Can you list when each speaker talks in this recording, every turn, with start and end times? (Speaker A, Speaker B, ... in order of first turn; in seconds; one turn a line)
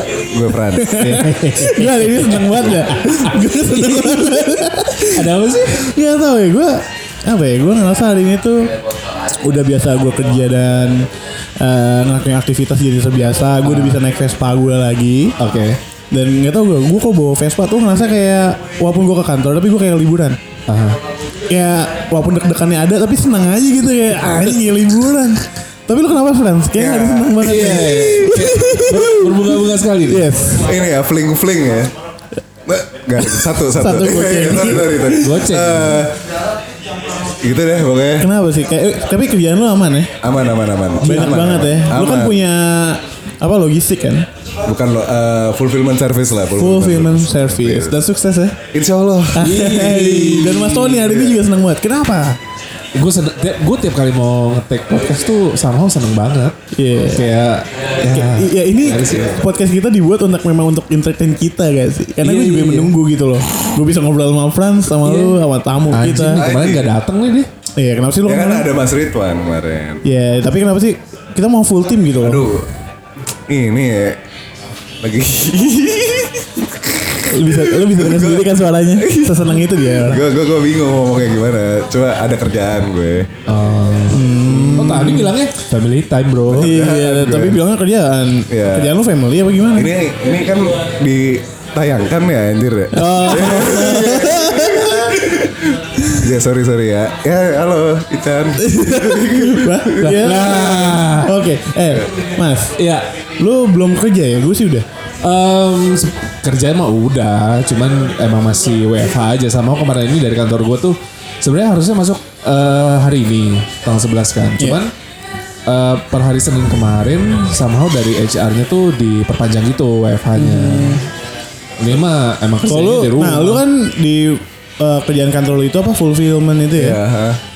Speaker A: 0.3-1.0
Speaker B: 0.7-8.7
Speaker C: 1.0-5.9
Speaker B: 9.3-11.1
Speaker B: 11.6-15.3
Speaker C: 13.6-14.0
Speaker C: 15.4-15.8
Speaker B: 16.1-20.4
Speaker C: 20.7-21.0
Speaker B: 21.5-30.8
Speaker A: 26.8-27.7
Speaker C: 27.4-30.3
Speaker A: 30.5-31.9
Speaker A: 32.6-36.2
Speaker B: 33.2-35.5
Speaker C: 35.2-36.1
Speaker A: 37.4-38.3
Speaker B: 38.2-40.1
Speaker A: 40.2-42.4
Speaker B: 41.0-44.3
Speaker A: 44.6-47.9
Speaker B: 46.6-48.6
Speaker A: 48.7-49.5
Speaker B: 49.3-52.4
Speaker C: 49.4-51.2
Speaker C: 52.9-56.5
Speaker B: 56.7-57.3
Speaker C: 57.1-59.4
Speaker B: 58.0-66.4
Speaker A: 59.0-59.4
Speaker C: 62.2-62.9
Speaker C: 65.0-65.4
Speaker C: 65.9-67.5
Speaker A: 66.3-66.9
Speaker B: 67.8-68.7
Speaker A: 68.2-70.0
Speaker B: 70.0-72.5
Speaker A: 72.2-72.7
Speaker A: 73.5-74.2
Speaker A: 75.0-83.3
Speaker B: 77.3-80.3
Speaker C: 83.5-86.9
Speaker B: 84.1-85.3
Speaker A: 86.5-87.6
Speaker B: 86.5-89.9
Speaker A: 88.5-88.9
Speaker A: 89.7-100.9
Speaker B: 92.9-95.3
Speaker B: 98.6-102.8
Speaker C: 100.0-101.4
Speaker C: 102.8-103.0
Speaker B: 103.4-104.9
Speaker C: 105.2-114.9
Speaker C: 115.7-121.0
Speaker B: 120.3-121.0
Speaker C: 121.8-123.6
Speaker B: 122.7-127.0
Speaker A: 126.7-127.4